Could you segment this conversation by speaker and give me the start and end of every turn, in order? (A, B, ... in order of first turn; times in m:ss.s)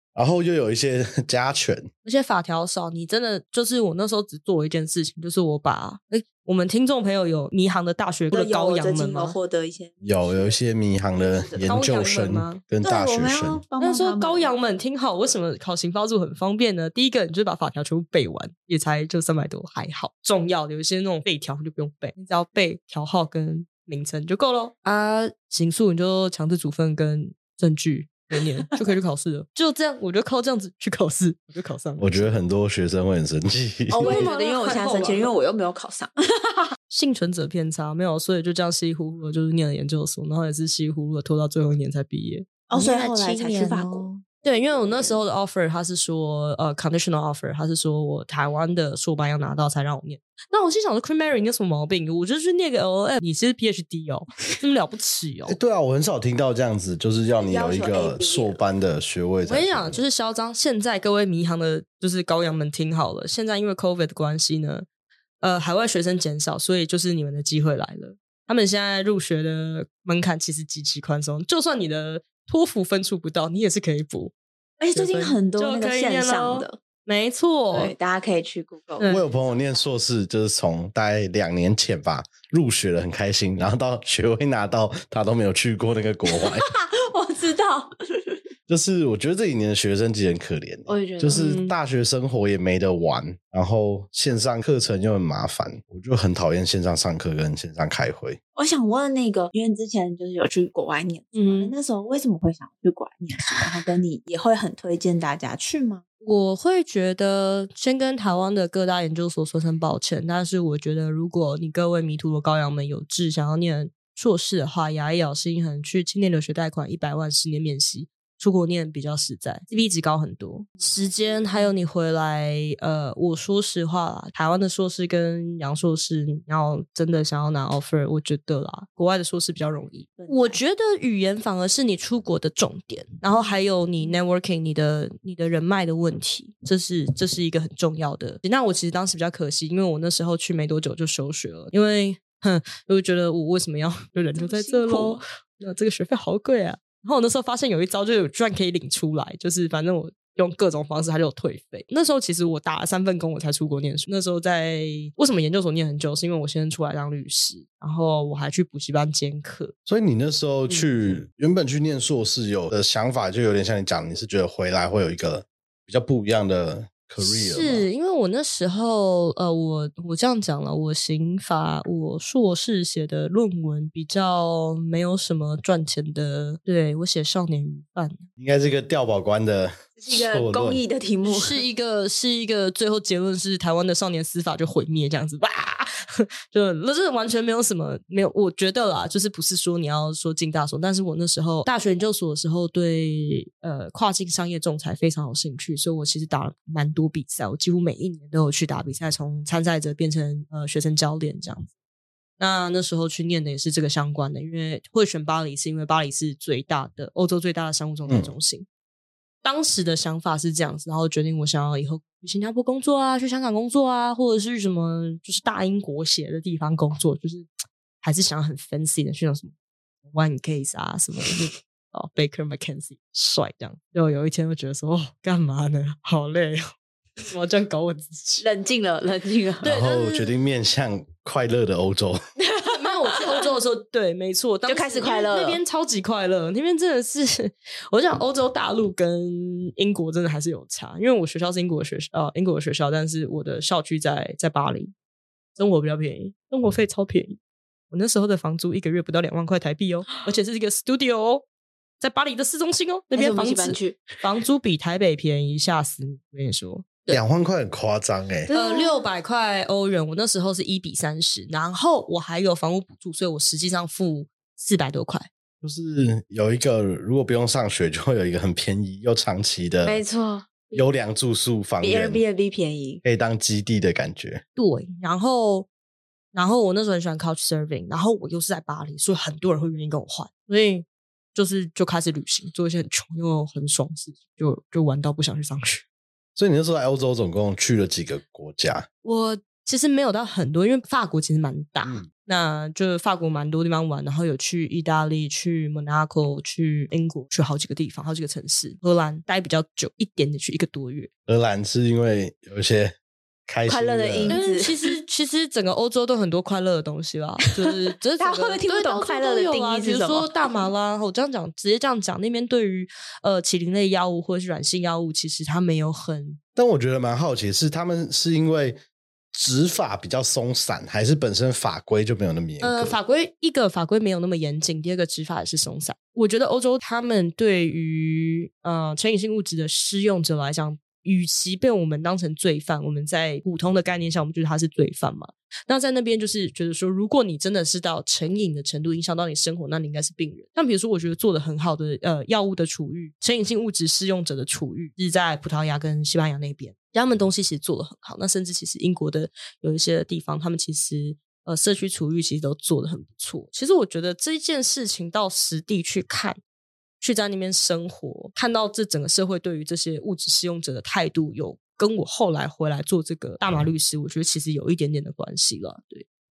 0:00.2-0:01.9 A
0:02.0-0:09.4 B
0:08.3-0:10.6 C
0:10.0-0:13.6 A
0:11.2-0:11.8 C
0:11.7-0:12.6 B
0:12.8-0:14.5 C
0:13.8-0:32.4 B
0:32.0-0:34.3 A
0:33.9-0:36.7 C
0:34.0-0:35.3 B
0:36.9-0:55.6 B
0:42.7-0:44.1 C
0:44.7-0:45.2 C
0:55.5-1:00.0 A
0:57.4-0:58.6 C
0:59.4-1:04.9 B
1:05.4-1:14.3 B
1:14.8-1:16.8 C
1:14.9-1:17.9 B
1:17.7-1:19.8 C
1:19.0-1:19.2 B
1:19.0-1:26.6 A
1:26.3-1:28.4 C
1:28.7-1:38.4 A
1:30.9-1:31.5 C
1:31.3-1:31.7 B
1:38.6-1:46.0 C
1:41.4-1:41.7 B
1:46.2-2:39.7 B
2:00.8-2:01.7 C
2:10.2-2:10.6 C
2:13.3-2:14.2 C
2:24.4-2:25.2 C
2:39.9-2:47.9 A
2:47.2-2:58.2 B
2:58.4-3:00.8 A
3:00.0-3:01.6 C
3:01.2-3:21.7 B
3:22.4-3:28.7 B
3:28.1-3:28.3 A
3:29.4-3:37.5 B
3:38.0-3:39.5 B
3:40.0-3:46.7 B
3:47.3-3:48.5 B
3:48.4-3:49.7 C
3:49.6-3:50.3 B
3:49.6-3:52.2 A
3:52.4-3:53.5 C
3:52.7-4:04.9 B
3:54.7-3:55.6 C
4:05.6-4:07.4 B
4:07.9-4:11.4 B
4:12.0-4:17.2 B
4:13.1-4:14.2 C
4:17.1-4:18.5 A
4:18.5-4:19.1 C
4:18.5-4:25.3 B
4:25.6-4:30.0 A
4:29.8-4:30.9 C
4:30.8-4:32.2 A
4:31.8-4:33.0 C
4:33.0-4:34.4 A
4:34.6-4:35.7 B
4:36.3-4:45.8 B
4:46.4-4:48.9 A
4:49.0-5:01.1 B
5:01.3-5:03.0 A
5:03.5-5:04.4 A
5:03.7-5:04.9 C
5:04.3-5:16.4 B
5:08.2-5:10.7 C
5:16.6-5:18.8 A
5:19.3-5:23.0 A
5:22.6-5:56.4 B
5:57.0-6:06.1 B